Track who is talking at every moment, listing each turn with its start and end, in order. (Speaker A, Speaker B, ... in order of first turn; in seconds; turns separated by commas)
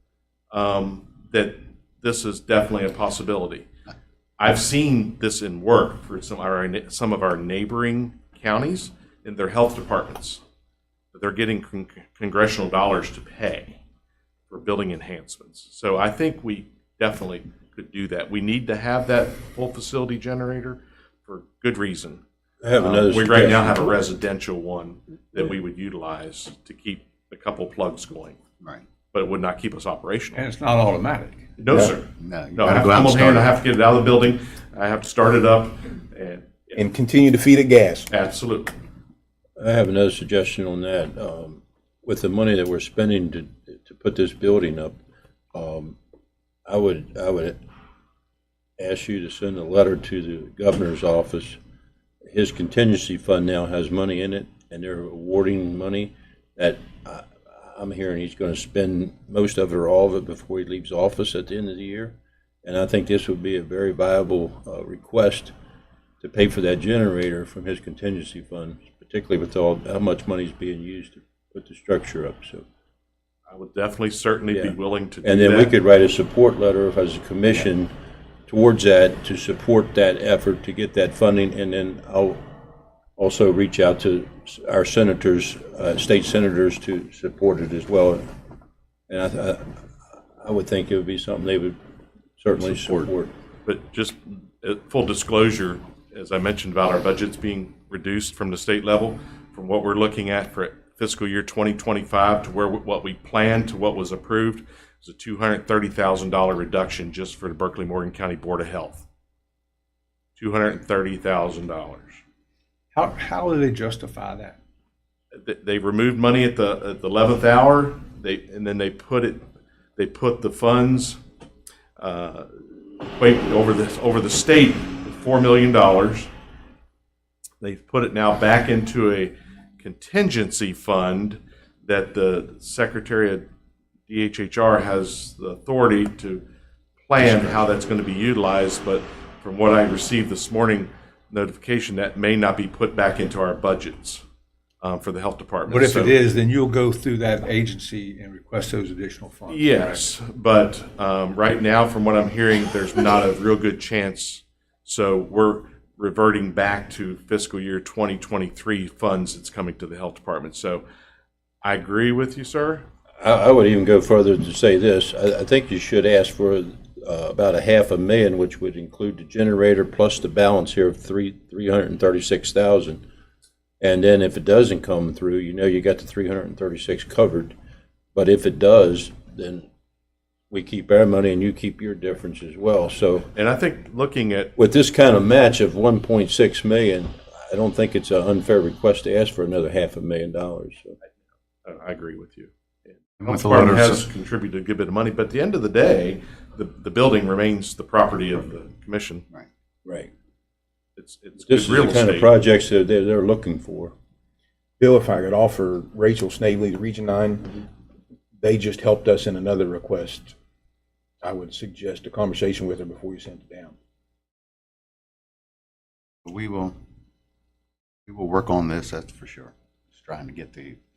Speaker A: 0.5-3.7, Speaker A: 4.4-10.4, Speaker A: 11.1-13.8, Speaker A: 14.5-22.2, Speaker B: 22.6-23.7, Speaker A: 22.8-28.4, Speaker A: 29.1-30.5, Speaker C: 30.3-31.5, Speaker A: 31.6-36.8, Speaker D: 32.1-33.5, Speaker E: 36.8-38.1, Speaker A: 38.1-38.7, Speaker B: 39.6-45.0, Speaker B: 45.5-46.0, Speaker B: 46.6-47.6, Speaker B: 48.8-51.6, Speaker B: 52.2-65.5, Speaker B: 66.2-72.6, Speaker A: 73.5-75.7, Speaker B: 74.5-77.9, Speaker B: 78.5-82.4, Speaker B: 83.2-88.2, Speaker B: 89.1-89.7, Speaker B: 90.4-91.8, Speaker B: 92.4-93.3, Speaker A: 93.6-109.0, Speaker A: 110.4-112.2, Speaker C: 112.9-114.6, Speaker A: 115.3-119.4, Speaker A: 120.0-121.2, Speaker A: 122.0-126.3, Speaker A: 127.6-133.5, Speaker A: 134.1-136.4, Speaker A: 137.0-144.2, Speaker D: 137.2-137.6, Speaker A: 144.8-146.2, Speaker C: 145.7-150.1, Speaker A: 149.5-160.8, Speaker A: 161.6-162.8, Speaker B: 163.2-173.0, Speaker B: 173.8-177.5, Speaker B: 178.1-179.7, Speaker B: 180.5-183.3, Speaker A: 183.3-184.5, Speaker B: 184.6-190.9, Speaker A: 191.6-199.2, Speaker D: 193.2-194.0, Speaker A: 201.0-202.3, Speaker B: 201.5-203.9, Speaker E: 204.8-207.6, Speaker E: 208.4-210.3, Speaker E: 211.2-213.8, Speaker D: 216.2-216.7, Speaker D: 218.1-220.8